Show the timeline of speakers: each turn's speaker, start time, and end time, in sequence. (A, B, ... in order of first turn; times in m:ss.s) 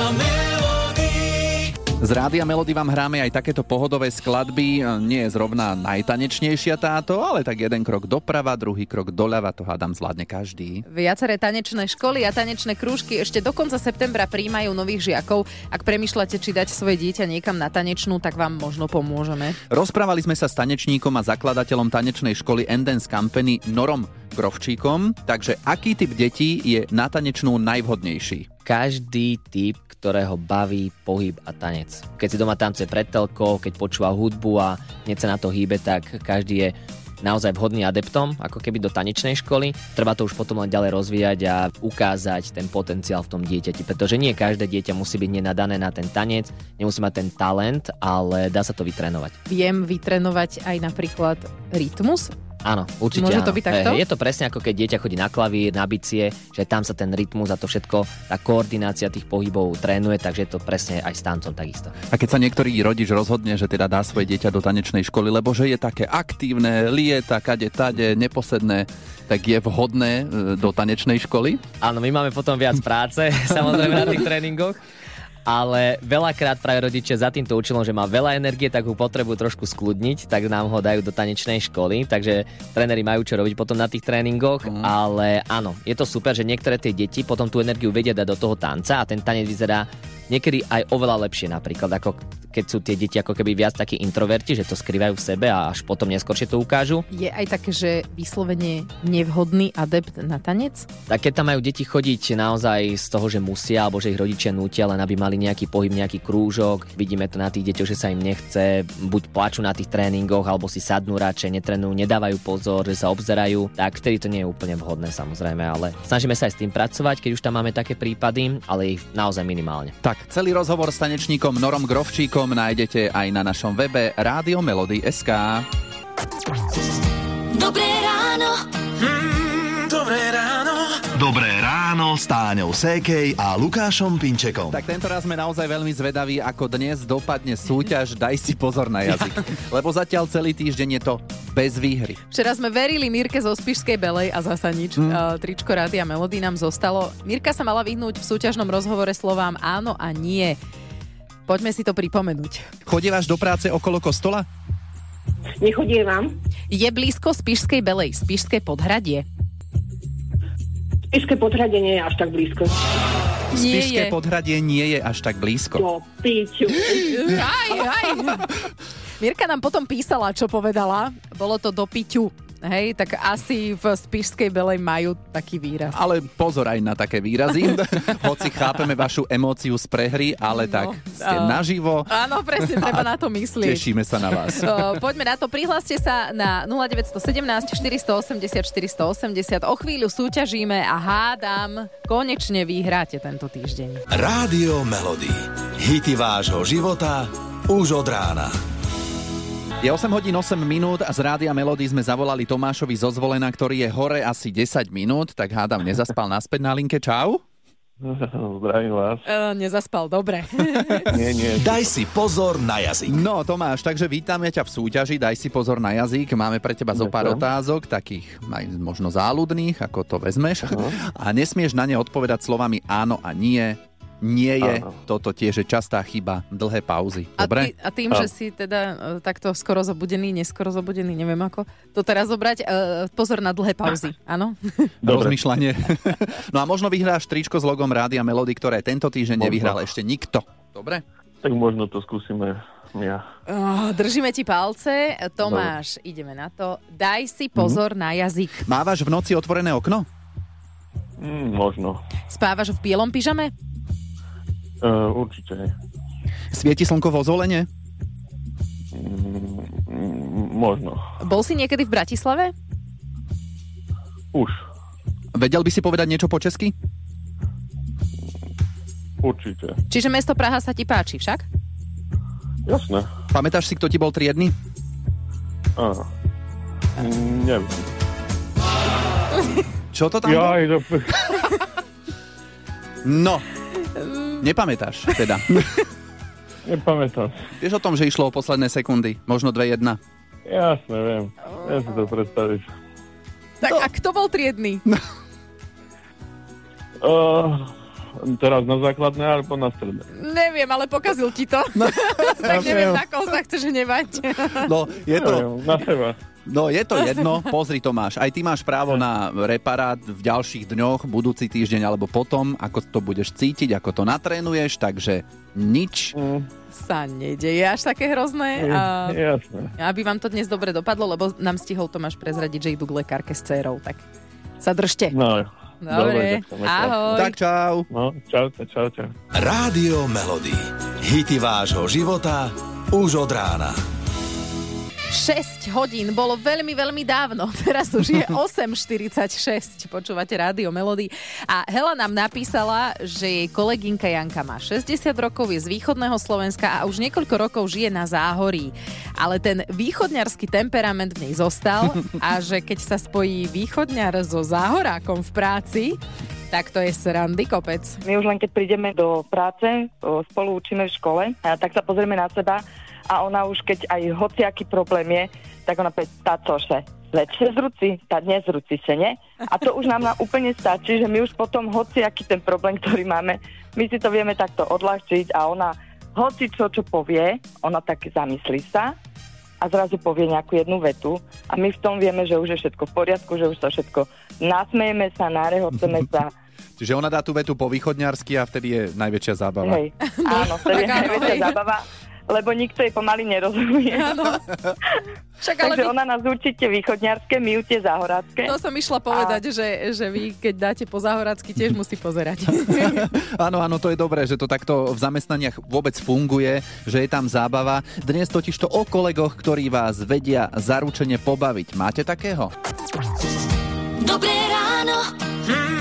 0:02.0-0:10.8 A
0:10.9-0:19.6 B
0:19.7-0:28.5 A
0:28.7-0:49.4 C
0:49.5-0:52.3 B
0:52.6-1:01.9 C
0:53.1-0:54.0 B
1:02.1-1:11.6 A
1:11.8-1:14.8 C
1:15.5-1:37.0 C
1:24.6-1:24.9 A
1:37.1-1:40.9 B
1:41.1-1:59.9 C
2:00.0-2:05.7 A
2:07.5-2:08.6 D
2:09.7-2:10.9 A
2:11.1-2:14.8 E
2:14.7-2:22.2 A
2:22.3-2:30.6 B
2:31.5-2:32.6 B
2:32.9-2:34.5 A
2:35.6-2:36.3 F
2:36.7-2:39.2 B
2:41.1-2:42.7 F
2:43.5-2:45.9 A
2:43.5-2:44.2 B
2:45.8-2:46.8 F
2:46.9-2:48.5 B
2:49.2-2:56.0 B
2:55.9-3:02.1 A
3:00.5-3:03.9 B
3:03.6-3:04.9 A
3:04.5-3:14.0 B
3:14.1-3:18.5 E
3:19.8-3:27.4 A
3:28.0-3:29.2 G
3:29.2-3:31.1 B
3:31.1-3:32.1 G
3:31.7-3:33.2 E
3:33.0-3:47.7 A
3:36.9-3:37.4 G
3:40.7-3:41.0 G
3:44.6-3:44.9 G
3:47.4-3:54.9 B
3:55.0-3:55.4 G
3:55.0-4:01.0 A
3:59.4-3:59.8 G
4:01.4-4:03.2 G
4:03.5-4:08.6 B
4:05.4-4:05.7 G
4:08.6-4:10.1 A
4:11.2-4:12.0 G
4:12.3-4:13.5 B
4:14.8-4:15.7 G
4:16.5-4:17.7 A
4:18.9-4:21.0 G
4:21.2-4:22.5 B
4:24.3-4:24.6 G
4:25.3-4:26.7 A
4:29.2-4:29.8 G
4:29.9-4:31.5 B
4:32.7-4:33.1 G
4:33.3-4:34.5 A
4:35.8-4:36.1 G
4:37.0-4:37.8 G
4:39.9-4:40.6 A
4:40.2-4:41.2 G
4:43.0-4:43.5 A
4:44.4-4:45.6 A
4:46.6-4:47.3 G
4:47.6-4:50.0 A
4:50.5-4:52.7 G
4:53.6-4:54.8 B
4:57.0-5:00.0 G
5:00.1-5:04.7 B
5:01.8-5:03.0 A
5:04.6-5:05.5 A
5:05.2-5:06.2 G
5:06.5-5:16.2 A
5:16.2-5:16.5 G
5:16.7-5:19.2 B
5:18.6-5:19.7 G
5:19.8-5:24.0 B
5:24.6-5:25.2 B
5:25.1-5:27.2 G
5:25.8-5:27.4 B
5:27.1-5:27.9 A
5:27.9-5:29.1 G
5:29.3-5:33.8 E
5:35.1-5:58.0 B
5:58.0-6:18.9 H
6:19.6-6:26.3 H
6:26.8-6:29.8 A
6:29.6-6:34.3 H
6:30.0-6:31.6 B
6:33.9-6:34.4 B
6:35.4-6:35.9 B
6:35.6-6:38.6 H
6:38.4-6:43.1 B
6:39.1-6:39.4 H
6:42.8-6:52.5 A
6:54.0-6:55.1 D